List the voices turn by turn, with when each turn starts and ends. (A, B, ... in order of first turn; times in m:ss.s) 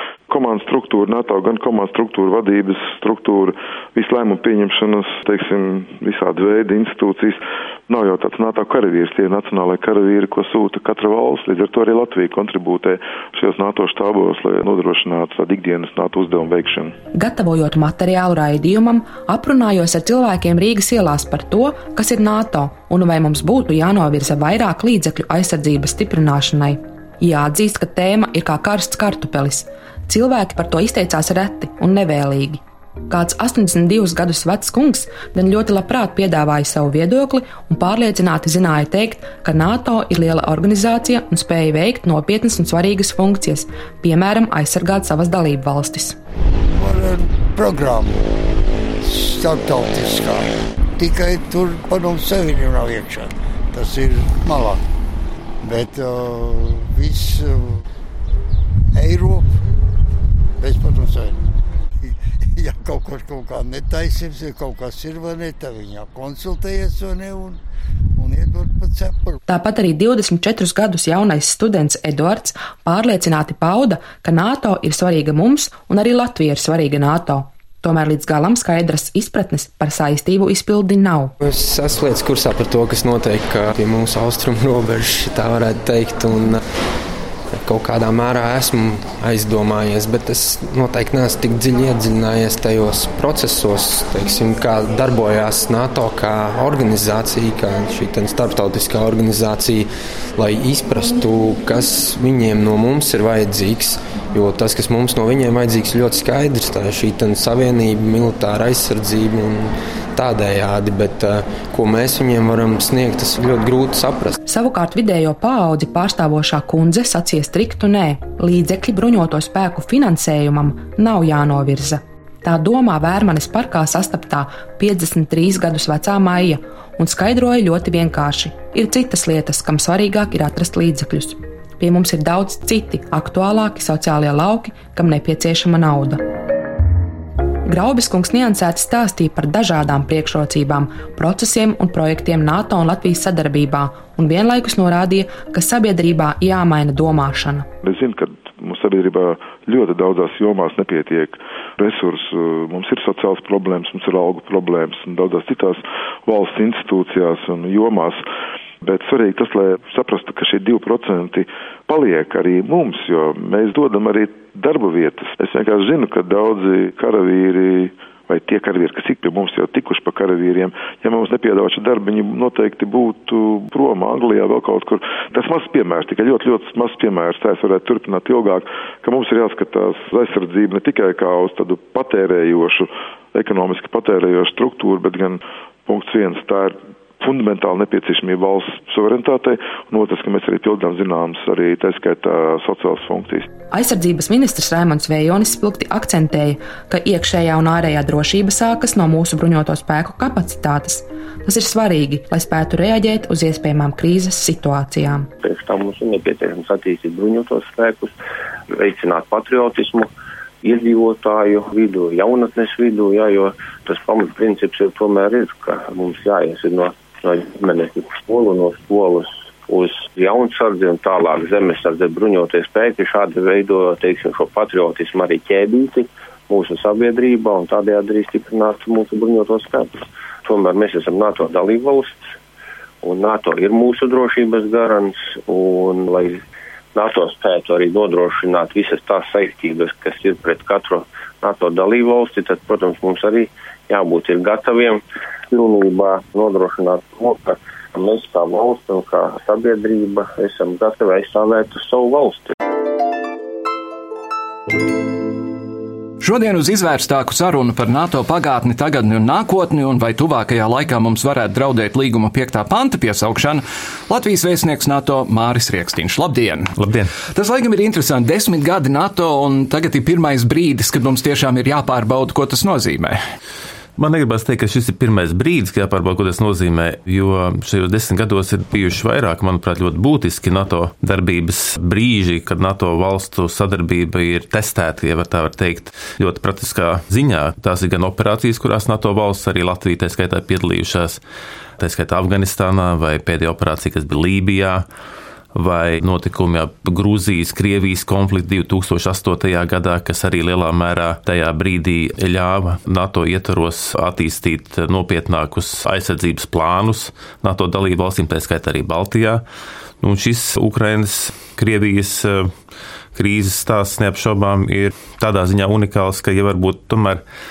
0:00.3-0:17.0 A
0:17.1-0:46.2 B
0:46.7-0:48.2 C
0:49.0-0:54.8 C
0:55.6-0:57.8 C
0:58.9-0:59.6 C
1:00.6-1:01.5 C
1:02.0-1:07.6 C
1:08.2-1:09.4 C
1:09.5-1:21.3 B
1:21.4-1:26.6 D
1:27.5-1:54.3 D
1:54.5-2:16.2 B
2:17.7-2:27.7 B
2:27.8-2:38.2 A
2:38.8-3:13.5 A
3:13.7-3:25.3 B
3:25.4-3:28.1 E
3:28.7-3:30.1 E
3:30.6-3:52.2 E
3:53.0-3:56.4 E
3:57.0-4:12.5 E
4:16.2-4:26.7 F
4:26.8-4:27.1 G
4:27.3-4:33.2 F
4:34.0-4:51.2 G
4:51.8-4:54.8 G
4:55.6-5:09.4 G
5:10.0-5:12.5 G
5:13.2-5:17.2 G